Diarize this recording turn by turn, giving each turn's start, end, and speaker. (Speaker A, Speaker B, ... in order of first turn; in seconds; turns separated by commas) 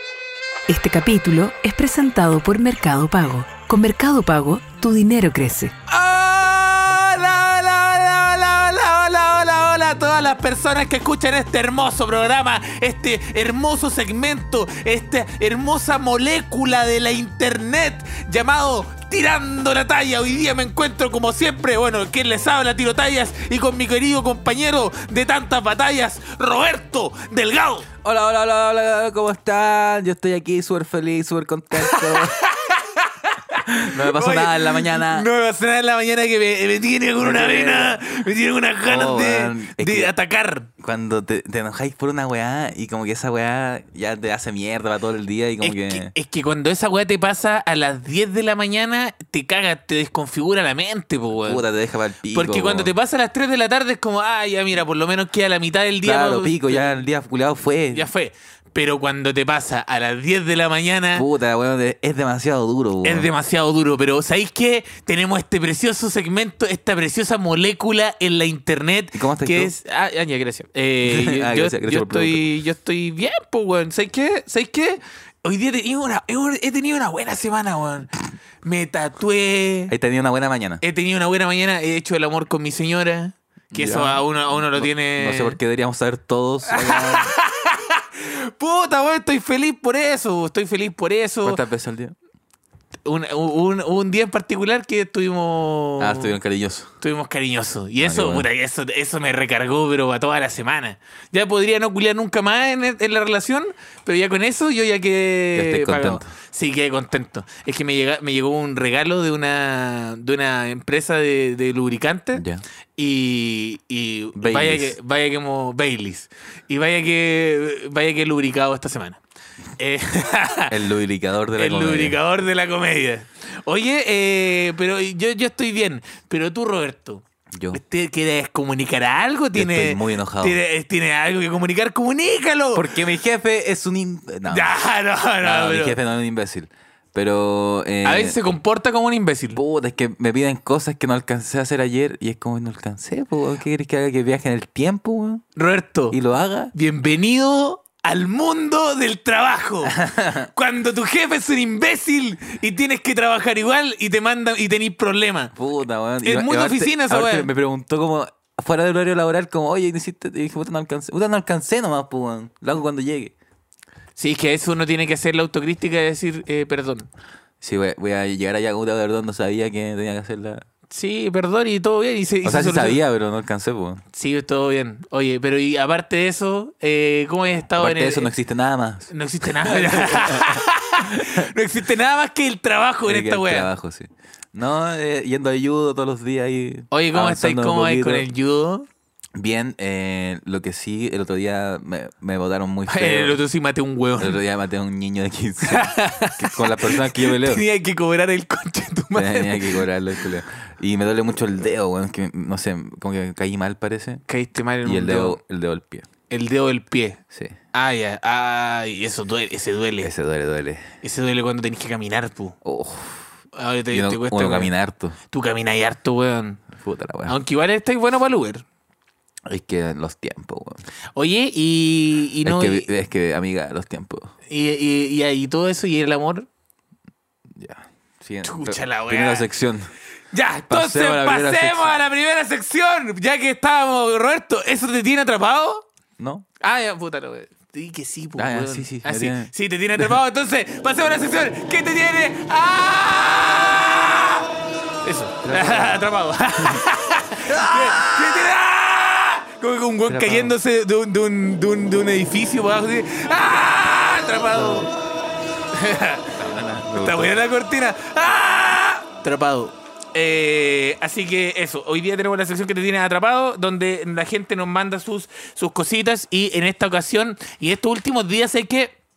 Speaker A: 0.7-5.7, Speaker B: 5.9-27.9, Speaker C: 28.0-32.4, Speaker B: 31.8-40.7, Speaker C: 33.6-35.3, Speaker C: 37.2-38.0, Speaker C: 38.8-40.1, Speaker C: 40.8-46.1, Speaker B: 45.6-51.6, Speaker C: 51.4-52.9, Speaker B: 52.3-57.0, Speaker C: 56.0-58.1, Speaker B: 57.9-61.2, Speaker C: 61.1-63.3, Speaker B: 63.0-78.1, Speaker C: 69.1-69.7, Speaker C: 71.0-72.4, Speaker B: 78.6-79.9, Speaker C: 79.9-80.8, Speaker B: 80.8-85.6, Speaker C: 83.7-87.3, Speaker B: 86.7-91.6, Speaker C: 91.4-92.1, Speaker B: 93.0-96.3, Speaker C: 96.0-96.9, Speaker B: 97.0-112.4, Speaker C: 98.0-98.5, Speaker C: 105.5-106.3, Speaker C: 112.3-112.6, Speaker B: 113.0-119.2, Speaker C: 114.4-115.0, Speaker B: 119.8-120.8, Speaker C: 120.7-122.2, Speaker B: 121.5-132.9, Speaker C: 127.5-127.8, Speaker C: 129.5-130.6, Speaker C: 132.7-134.7, Speaker B: 134.5-136.0, Speaker C: 135.4-138.4, Speaker B: 138.0-139.6, Speaker C: 139.5-145.4, Speaker B: 145.6-146.2, Speaker C: 146.1-146.7, Speaker B: 146.7-155.5, Speaker C: 149.8-150.5, Speaker C: 155.5-163.3, Speaker B: 156.2-157.5, Speaker B: 164.2-167.1, Speaker C: 167.6-170.6, Speaker B: 170.9-173.0, Speaker C: 172.4-174.0, Speaker B: 174.1-178.3, Speaker C: 177.8-181.5, Speaker B: 179.1-183.7, Speaker C: 183.1-188.2, Speaker B: 186.9-188.9, Speaker C: 189.3-193.4, Speaker B: 192.9-194.4, Speaker C: 194.2-197.6, Speaker B: 195.6-199.9, Speaker C: 199.1-204.2, Speaker B: 204.3-205.4, Speaker C: 204.8-206.1, Speaker B: 206.3-207.2, Speaker B: 207.7-210.1, Speaker C: 210.0-210.8, Speaker B: 211.0-212.6, Speaker C: 212.6-213.3, Speaker B: 213.5-214.7, Speaker C: 213.9-215.2, Speaker B: 215.3-216.6, Speaker C: 216.7-217.3, Speaker B: 217.3-218.6, Speaker C: 219.5-220.8, Speaker B: 221.1-222.9, Speaker C: 222.4-224.3, Speaker B: 224.5-226.5, Speaker C: 227.5-229.9, Speaker B: 228.4-229.5, Speaker B: 230.3-235.8, Speaker C: 230.7-232.0, Speaker C: 236.2-236.4, Speaker B: 236.6-244.5, Speaker C: 238.4-240.1, Speaker B: 245.0-254.9, Speaker C: 245.4-246.0, Speaker C: 246.6-246.8, Speaker C: 247.5-248.5, Speaker C: 250.1-250.5, Speaker C: 254.5-254.9, Speaker B: 255.7-256.3, Speaker C: 256.3-257.4, Speaker B: 256.9-268.9